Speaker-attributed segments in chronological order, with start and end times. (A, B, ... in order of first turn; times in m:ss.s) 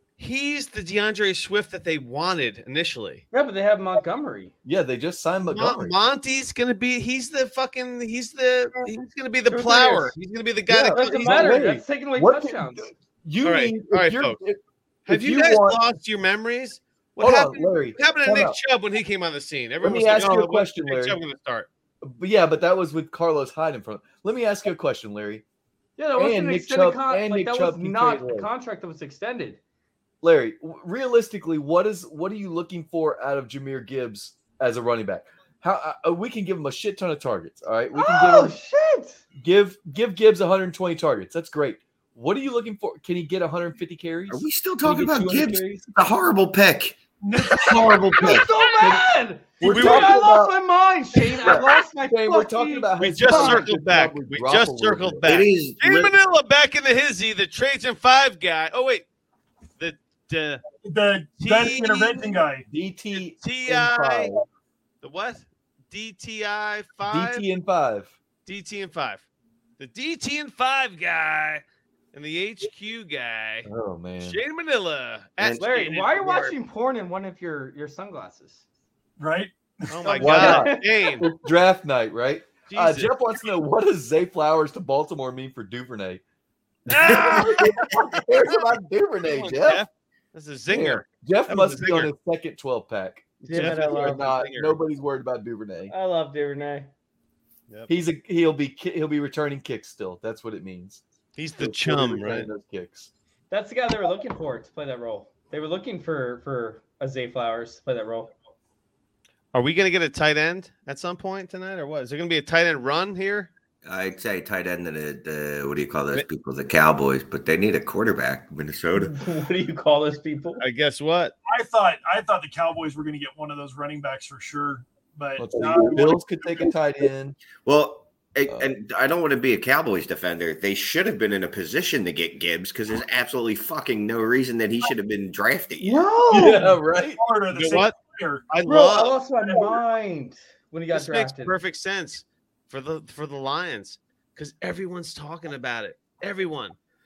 0:00.2-0:03.2 A
0:03.3-0:04.5 B
0:04.6-0:06.0 C
0:05.5-0:11.6 A
0:09.5-0:10.1 B
0:09.6-0:10.1 C
0:10.7-0:15.8 C
0:10.9-0:12.9 B
0:13.4-0:14.4 A
0:15.1-0:21.7 A
0:17.2-0:18.6 C
0:19.8-0:21.2 C
0:22.0-0:25.4 C
0:26.0-0:29.6 B
0:26.1-0:28.5 C
0:30.2-0:38.5 C
0:37.9-0:39.2 B
0:39.4-0:45.9 C
0:44.3-0:47.0 D
0:47.2-0:48.4 E
0:47.5-0:48.5 D
0:48.2-0:53.6 B
0:48.8-0:50.6 C
0:49.6-0:50.2 A
0:51.4-0:55.4 C
0:53.0-0:59.0 A
0:55.2-0:56.1 D
0:59.8-1:00.6 A
1:00.8-1:02.6 E
1:01.4-1:02.4 A
1:02.7-1:04.4 C
1:03.1-1:04.3 A
1:05.0-1:07.4 A
1:07.1-1:08.1 C
1:08.4-1:09.3 A
1:09.8-1:13.7 A
1:13.6-1:14.4 C
1:14.2-1:16.5 A
1:15.4-1:15.7 D
1:15.6-1:18.6 B
1:19.2-1:20.2 E
1:19.9-1:21.3 A
1:20.0-1:20.9 B
1:20.2-1:26.2 C
1:22.7-1:23.1 A
1:26.9-1:28.6 A
1:26.9-1:29.8 C
1:29.2-1:32.1 A
1:30.7-1:35.9 C
1:33.4-1:34.4 B
1:33.4-1:34.8 A
1:35.9-1:36.9 B
1:37.9-1:41.0 C
1:41.4-1:42.5 A
1:41.6-1:43.1 C
1:43.5-1:48.3 B
1:49.5-1:53.5 A
1:53.8-1:59.2 D
1:59.0-2:00.6 B
2:00.6-2:01.3 A
2:01.5-2:06.7 E
2:05.4-2:07.4 C
2:07.6-2:16.0 D
2:15.8-2:16.8 B
2:16.3-2:17.2 C
2:17.2-2:18.5 E
2:17.5-2:17.9 A
2:18.5-2:19.2 A
2:18.6-2:21.5 B
2:19.4-2:19.8 E
2:20.9-2:26.8 A